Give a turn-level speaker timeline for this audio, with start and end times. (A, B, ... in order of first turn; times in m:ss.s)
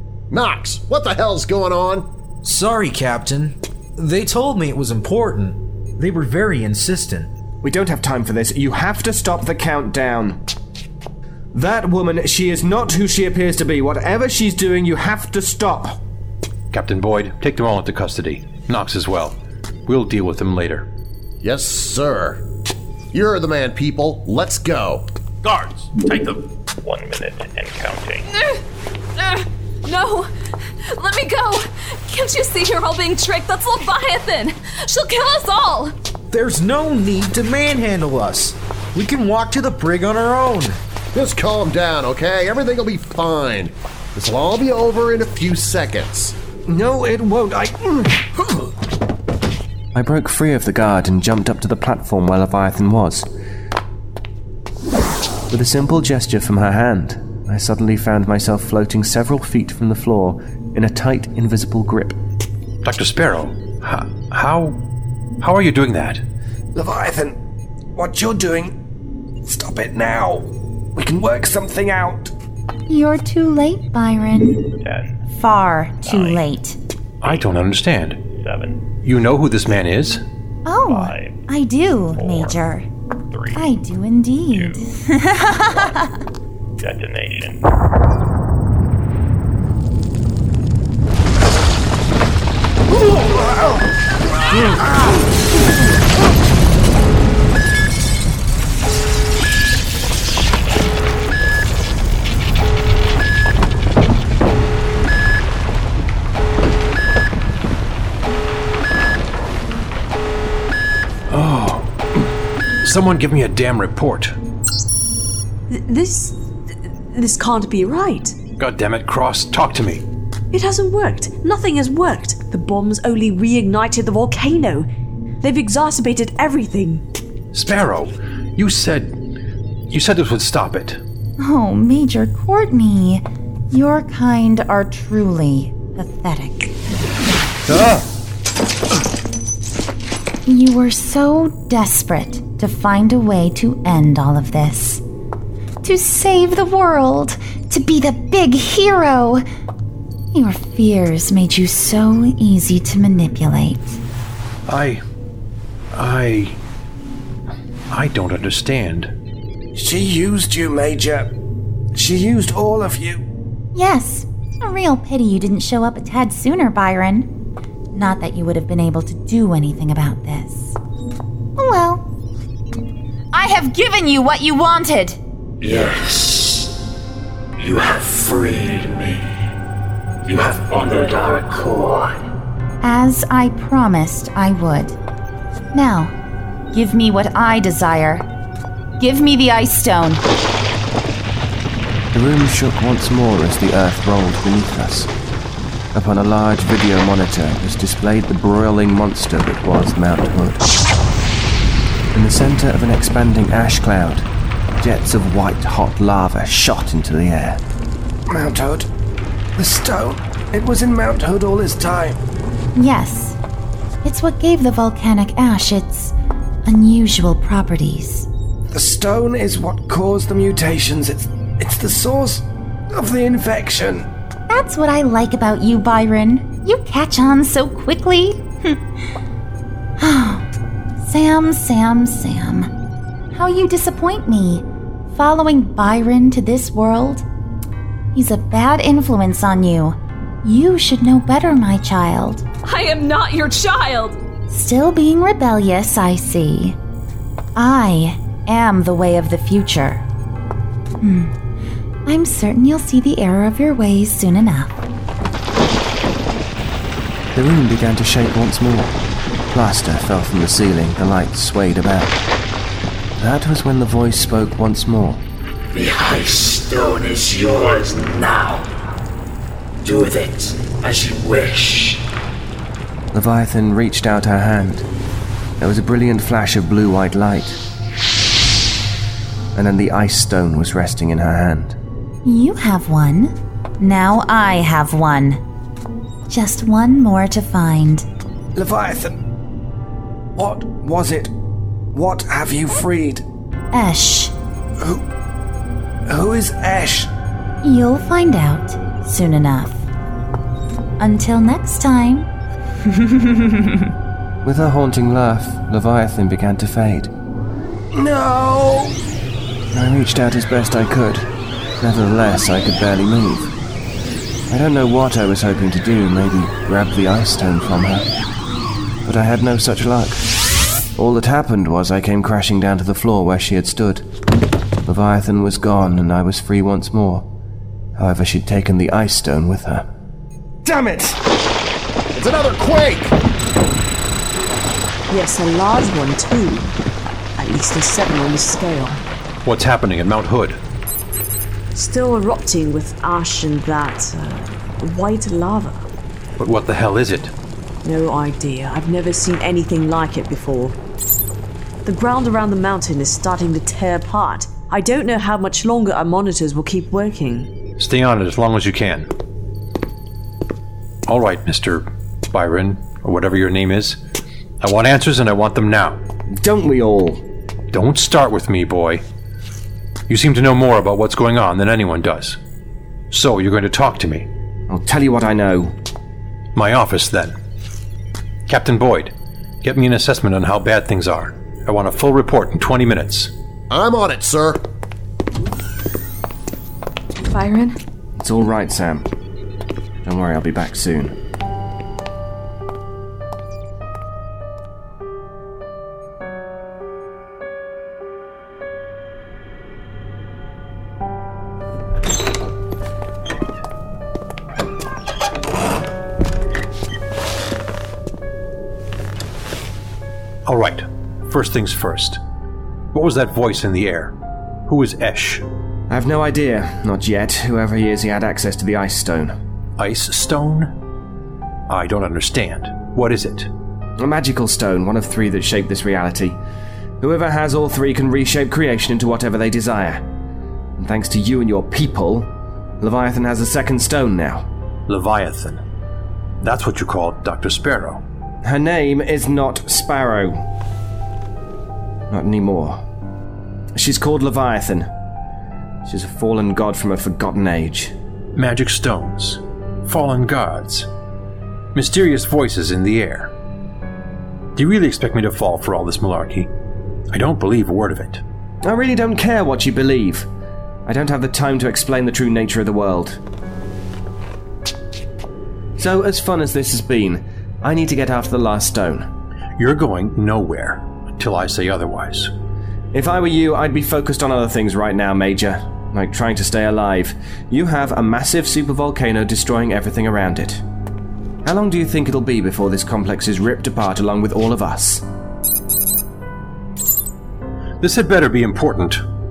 0:00.3-0:02.0 A
0:02.4-0:07.3 B
0:07.6-0:10.4 C
0:11.5-0:16.0 C
0:16.7-0:20.9 D
0:21.4-0:22.4 A
0:23.1-0:25.1 A
0:26.8-0:28.3 E
0:29.2-0:30.3 F
0:30.9-0:35.9 F
0:36.3-0:40.8 B
0:41.1-0:46.4 A
0:46.7-0:48.3 C
0:49.9-0:53.3 C
0:55.5-1:02.2 C
1:02.8-1:04.8 D
1:05.4-1:06.2 D
1:06.7-1:07.4 C
1:08.0-1:08.7 C
1:09.4-1:12.3 C
1:12.9-1:14.6 G
1:14.8-1:15.1 E
1:15.3-1:16.8 G
1:16.1-1:16.4 E
1:17.2-1:18.2 D
1:18.3-1:18.8 E
1:19.0-1:20.2 D
1:20.6-1:22.9 G
1:20.8-1:21.4 E
1:22.1-1:22.6 E
1:23.3-1:23.8 E
1:23.5-1:26.1 G
1:24.5-1:24.8 E
1:25.7-1:26.0 E
1:26.8-1:27.6 E
1:51.3-1:52.2 D
1:52.8-1:54.4 D
1:55.7-1:56.4 H
1:57.1-1:58.4 H
1:58.6-2:00.0 D
2:00.5-2:04.9 H
2:05.4-2:07.0 H
2:07.5-2:09.2 D
2:09.9-2:11.0 D
2:11.4-2:16.7 G
2:20.4-2:25.0 G
2:25.8-2:29.4 G
2:30.3-2:34.0 G
2:34.7-2:35.0 D
2:35.9-2:36.6 D
2:37.9-2:39.1 D
2:39.8-2:41.3 C
2:41.9-2:43.2 C
2:43.8-2:47.3 G
2:47.9-2:50.8 G
2:51.6-2:52.1 G
2:53.3-2:55.2 G
2:55.6-2:56.7 I
2:57.6-2:59.2 I
3:00.2-3:02.2 I
3:02.8-3:05.0 G
3:05.7-3:06.1 G
3:06.7-3:08.3 G
3:09.0-3:10.2 G
3:12.1-3:15.1 C
3:15.9-3:20.6 C
3:22.1-3:24.2 C
3:24.8-3:27.6 C
3:28.3-3:28.9 C
3:29.6-3:32.2 C
3:32.8-3:33.4 G
3:34.0-3:36.1 G
3:36.6-3:38.3 G
3:38.7-3:44.1 C
3:44.5-3:48.8 G
3:50.0-3:50.4 G
3:51.0-3:52.7 G
3:53.3-3:57.2 G
3:58.1-4:02.4 G
4:02.6-4:04.2 F
4:04.5-4:06.8 G
4:07.6-4:10.0 G
4:11.0-4:11.3 G
4:12.1-4:14.8 G
4:17.3-4:19.0 C
4:19.5-4:22.1 C
4:23.2-4:25.2 C
4:25.7-4:28.7 I
4:29.8-4:32.0 I
4:33.1-4:34.9 C
4:35.6-4:37.6 C
4:39.5-4:41.8 C
4:42.2-4:45.4 G
4:46.3-4:48.0 G
4:48.5-4:49.2 C
4:50.4-4:51.3 C
4:51.9-4:53.2 C
4:53.7-4:54.3 G
4:56.1-4:57.1 C
4:57.6-4:59.8 G
5:01.0-5:02.3 G
5:04.4-5:07.1 C
5:07.9-5:09.0 C
5:09.7-5:11.3 C
5:11.8-5:13.5 C
5:14.5-5:18.1 C
5:19.0-5:20.2 C
5:21.0-5:24.0 C
5:24.9-5:27.3 C
5:28.0-5:29.9 C
5:30.6-5:31.2 C
5:32.1-5:33.2 A
5:35.1-5:36.7 H
5:37.4-5:39.0 H
5:39.4-5:40.6 D
5:41.7-5:45.9 H
5:46.4-5:47.3 D
5:47.8-5:50.8 H
5:51.8-5:57.5 H
5:57.8-5:59.1 D
6:01.1-6:04.0 D
6:04.6-6:06.0 D
6:06.4-6:07.2 C
6:07.7-6:09.0 D
6:10.1-6:12.4 D
6:13.1-6:14.3 D
6:14.7-6:15.7 C
6:16.5-6:17.4 D
6:18.5-6:23.3 D
6:23.7-6:24.6 A
6:27.2-6:27.8 F
6:28.2-6:29.1 C
6:30.0-6:31.1 C
6:50.5-6:52.2 D
6:52.9-6:54.1 D
6:54.7-6:55.5 D
6:55.9-6:59.3 C
6:59.8-7:00.7 D
7:01.7-7:03.5 D
7:04.0-7:06.4 C
7:07.0-7:10.0 C
7:10.8-7:14.5 C
7:14.9-7:15.6 D
7:16.4-7:18.0 D
7:18.4-7:20.5 C
7:22.1-7:22.8 C
7:23.8-7:24.9 C
7:25.9-7:27.9 C
7:28.4-7:30.9 D
7:31.7-7:33.3 D
7:34.6-7:36.5 D
7:37.1-7:38.2 D
7:38.6-7:40.3 C
7:40.9-7:43.2 C
7:45.8-7:49.1 C
7:49.6-7:52.3 D
7:52.9-8:00.6 C
8:01.4-8:05.0 C
8:07.8-8:09.0 D